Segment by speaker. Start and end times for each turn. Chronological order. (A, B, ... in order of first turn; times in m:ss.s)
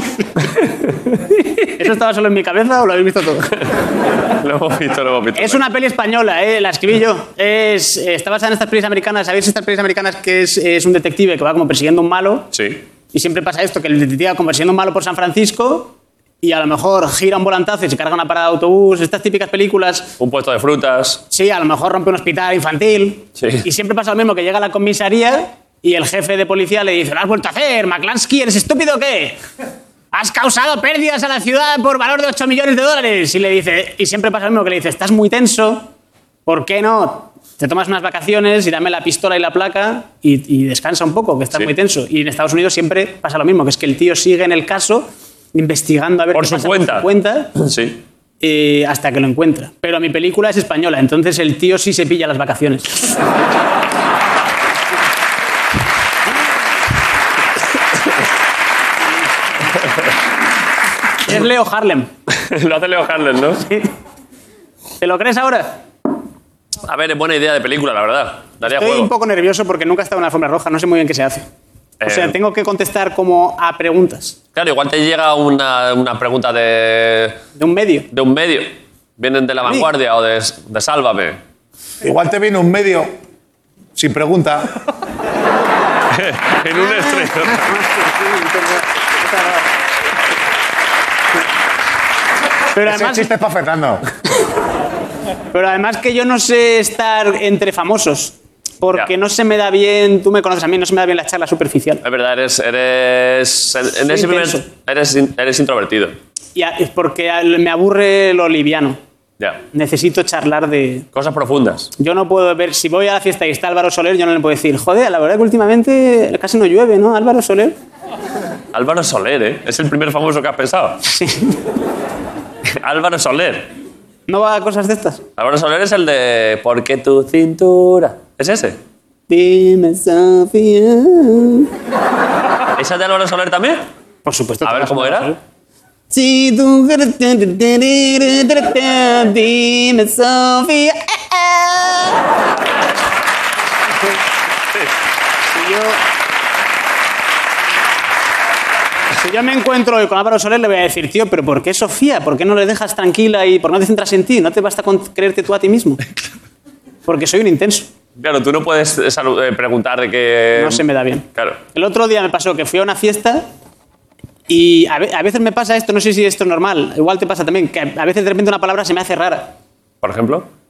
0:01.8-0:03.5 A
0:04.4-0:05.6 B
0:05.3-0:12.5 A
0:12.5-0:12.8 B
0:13.1-0:20.1 A
0:20.2-0:21.2 B
0:21.3-0:29.4 A
0:23.4-0:23.6 B
0:30.1-0:35.9 A
0:36.4-0:47.5 A
0:46.3-0:48.0 B
0:48.4-0:53.1 A
1:01.2-1:02.1 A
1:02.4-1:03.6 B
1:05.0-1:05.7 A
1:06.8-1:09.1 B
1:08.6-1:11.5 A
1:12.0-1:12.4 B
1:12.0-1:14.4 A
1:14.5-1:17.4 B
1:17.6-1:18.1 A
1:18.1-1:21.4 B
1:22.0-1:23.1 C
1:24.0-1:24.6 C
1:26.1-1:27.6 B
1:26.8-1:29.7 A
1:32.7-1:33.3 A
1:32.8-1:34.0 C
1:35.5-1:42.0 A
1:42.0-1:46.2 B
1:43.9-1:44.7 A
1:46.5-1:49.0 A
1:49.7-1:51.0 A
1:51.1-1:51.9 B
1:52.0-1:57.8 A
1:58.7-2:01.0 B
2:01.1-2:01.6 A
2:02.7-2:03.7 B
2:04.3-2:05.2 A
2:05.4-2:08.8 B
2:09.3-2:11.7 A
2:12.8-2:13.8 B
2:14.2-2:15.4 A
2:14.6-2:15.3 B
2:16.1-2:22.1 A
2:25.5-2:26.0 A
2:29.2-2:36.0 A
2:37.0-2:37.9 A
2:38.2-2:40.8 B
2:40.6-2:43.4 A
2:41.3-2:41.6 B
2:44.5-2:49.5 A
2:50.0-2:50.5 B